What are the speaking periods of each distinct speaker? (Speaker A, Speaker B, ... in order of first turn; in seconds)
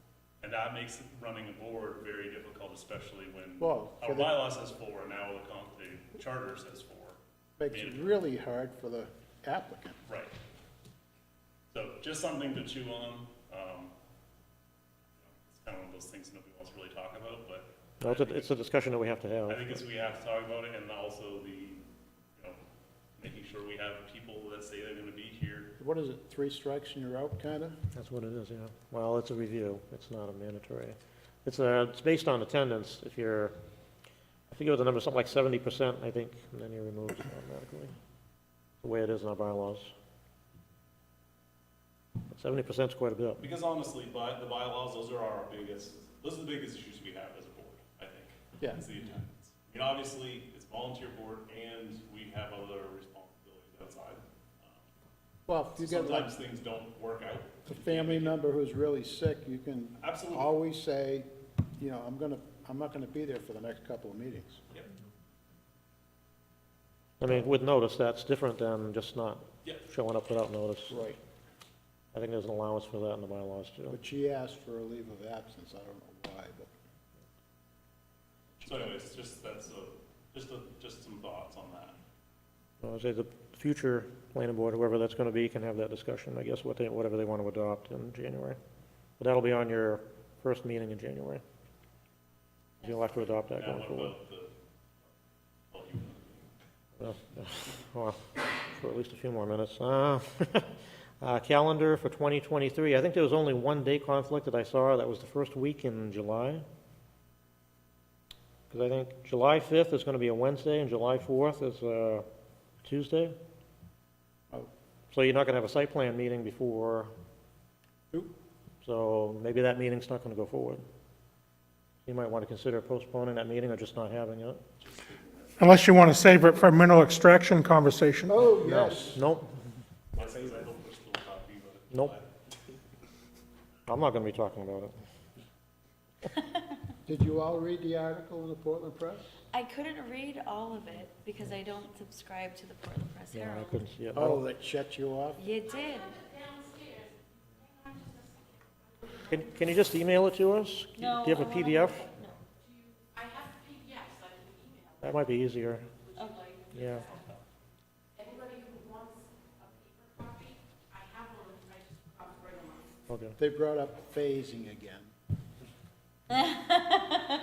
Speaker A: 0.4-8.2, 10.1-10.3, 11.7-13.9, 15.2-18.5, 19.5-21.8, 23.2-25.7, 43.4-54.8, 55.8-58.4, 60.0-60.5, 78.6-82.0, 93.6-94.5, 95.7-96.5, 124.8-126.2, 130.1-132.3
Speaker B: 3.6-4.3, 7.6-10.0, 25.8-27.8, 55.5-56.3, 57.7-64.6, 70.9-71.2, 73.9-76.7, 128.3-129.2, 137.1-139.3, 144.2-145.4, 163.4-165.1
Speaker C: 18.0-19.8, 27.9-33.5, 34.5-38.0, 38.8-39.9, 42.3-43.5, 67.2-71.0, 72.1-74.0, 82.8-88.6, 89.2-91.4, 92.8-94.1, 97.0-106.7, 108.7-112.3, 112.8-113.4, 115.1-117.1, 118.8-120.8, 122.1-124.6, 128.6-129.5, 133.9-135.0, 143.3-144.4, 149.2-152.1, 155.0-155.9, 156.7-157.1, 163.1-163.4
Speaker D: 125.6-128.4
Speaker E: 139.5-143.8, 145.4-146.3, 151.0-152.3, 156.2-156.6, 166.4-167.0